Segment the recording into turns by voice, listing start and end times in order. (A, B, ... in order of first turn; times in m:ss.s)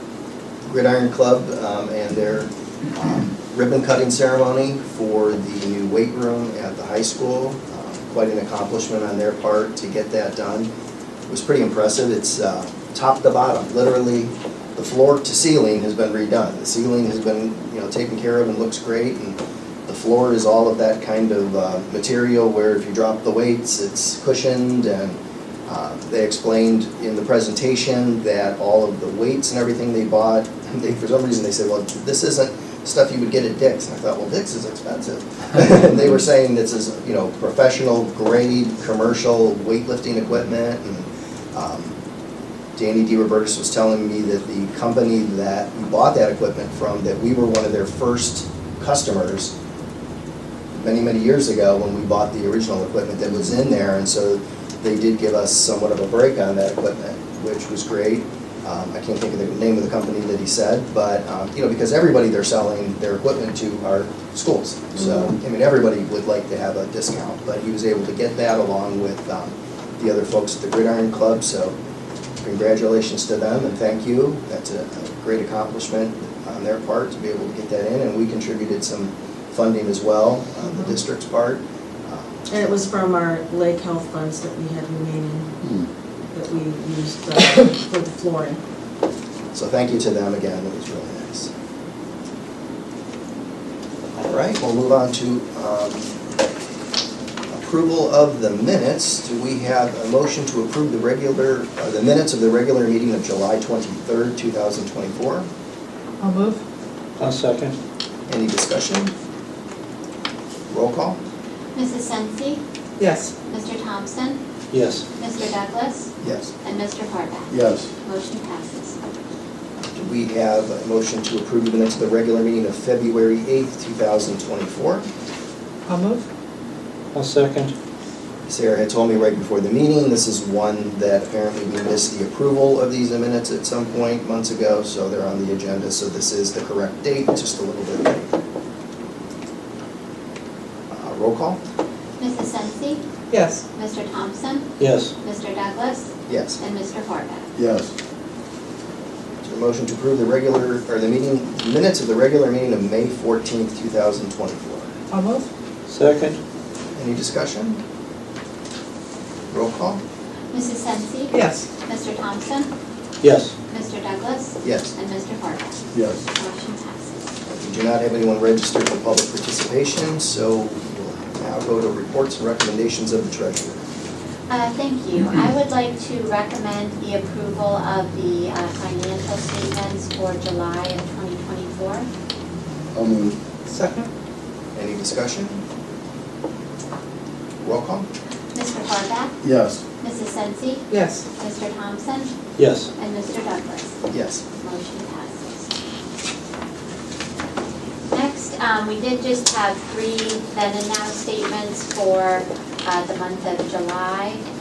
0:00.7-0:10.7 A
0:11.3-0:42.0 A
0:42.8-0:49.5 A
0:50.7-1:11.8 A
1:12.4-1:22.4 A
1:22.5-1:25.6 B
1:26.3-1:28.6 B
1:29.5-1:31.5 A
1:34.2-1:36.2 A
1:37.5-1:45.5 A
1:46.2-1:46.6 C
1:47.2-1:47.8 D
1:48.3-1:49.1 A
1:50.7-1:51.2 A
1:51.8-1:52.6 E
1:53.0-1:53.3 C
1:53.4-1:54.4 E
1:54.7-1:55.0 D
1:55.2-1:56.1 E
1:56.2-1:56.5 A
1:56.6-1:59.0 E
1:57.5-1:57.9 F
1:59.9-2:05.1 A
2:05.9-2:06.3 C
2:07.1-2:07.7 D
2:08.5-2:18.3 A
2:20.9-2:21.6 A
2:22.2-2:23.0 E
2:23.3-2:23.6 C
2:23.7-2:27.5 E
2:24.8-2:25.1 D
2:26.3-2:26.6 A
2:27.6-2:27.9 F
2:29.4-2:34.9 A
2:35.1-2:35.5 C
2:35.9-2:36.4 D
2:36.9-2:37.8 A
2:39.5-2:40.0 A
2:40.5-2:42.7 E
2:41.3-2:41.6 C
2:43.2-2:43.5 D
2:43.7-2:47.3 E
2:44.6-2:44.9 A
2:45.9-2:46.2 F
2:47.5-2:53.8 A
2:54.5-3:02.1 E
3:02.9-3:03.4 F
3:03.7-3:04.1 C
3:04.7-3:05.6 A
3:07.6-3:08.1 A
3:08.5-3:09.4 E
3:09.4-3:09.8 F
3:10.0-3:12.3 E
3:10.9-3:11.2 C
3:12.6-3:12.9 D
3:13.0-3:14.0 E
3:14.1-3:14.4 A
3:14.6-3:15.7 E
3:18.1-3:24.4 E